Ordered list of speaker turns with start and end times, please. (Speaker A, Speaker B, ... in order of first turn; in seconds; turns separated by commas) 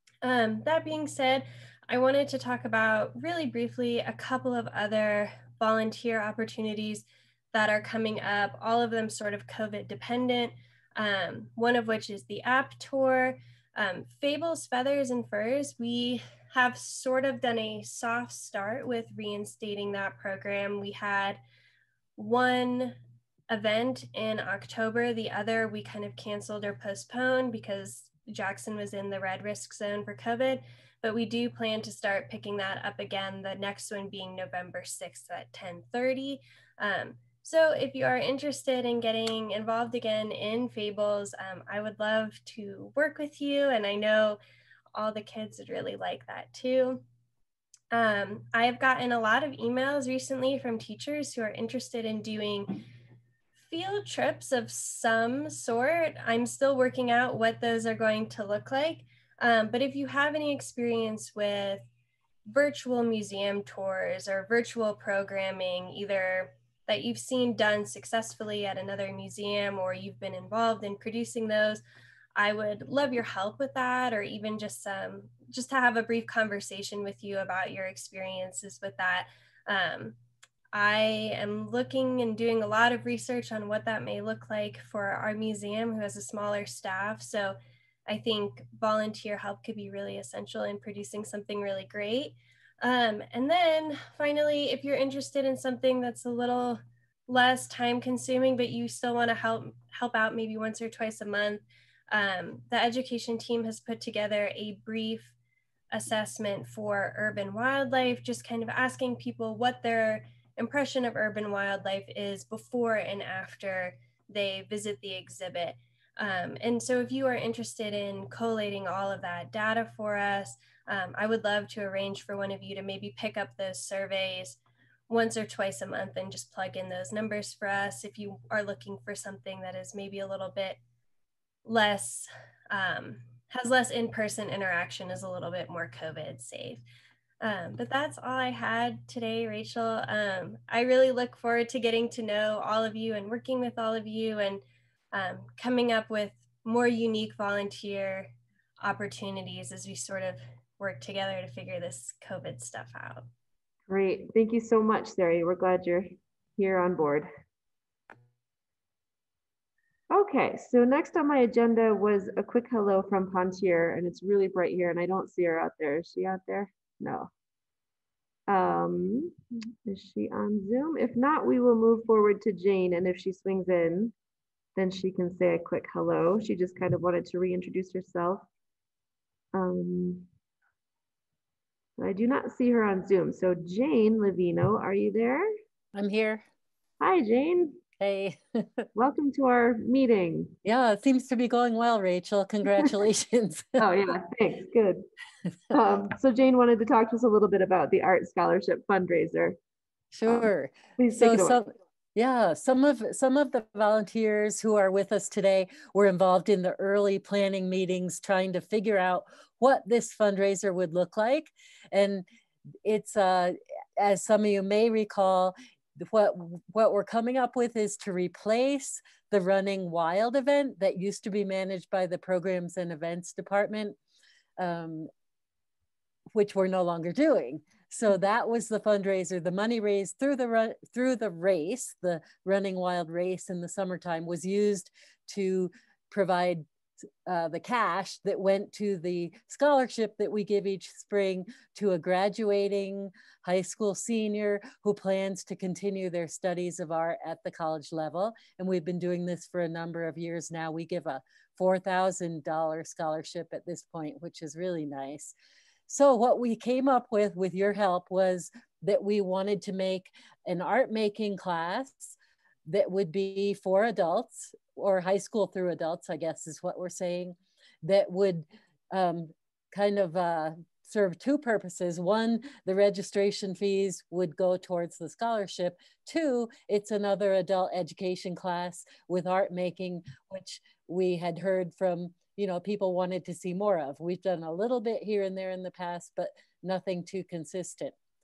Speaker A: 0.2-21.4, Speaker A: 22.2-23.0, Speaker A: 23.5-44.4, Speaker A: 44.9-47.0, Speaker A: 47.9-52.8, Speaker A: 53.6-61.9, Speaker A: 62.5-71.8, Speaker A: 72.4-80.2, Speaker A: 80.7-105.3, Speaker A: 105.9-124.6, Speaker A: 125.1-130.8, Speaker A: 131.7-136.8, Speaker A: 137.4-153.3, Speaker B: 153.9-157.3, Speaker B: 160.1-167.3, Speaker B: 168.5-174.1, Speaker B: 174.8-178.4, Speaker B: 179.5-180.3, Speaker B: 182.0-185.5, Speaker C: 185.9-186.4, Speaker B: 187.0-187.8, Speaker C: 188.0-188.8, Speaker B: 188.9-190.6, Speaker C: 190.7-193.8, Speaker B: 193.8-195.1, Speaker B: 195.7-199.6, Speaker C: 200.1-212.3, Speaker B: 200.3-201.6, Speaker C: 212.8-224.0, Speaker C: 224.6-225.1, Speaker C: 226.3-236.7, Speaker C: 237.3-255.3, Speaker C: 255.9-262.2, Speaker C: 262.7-287.9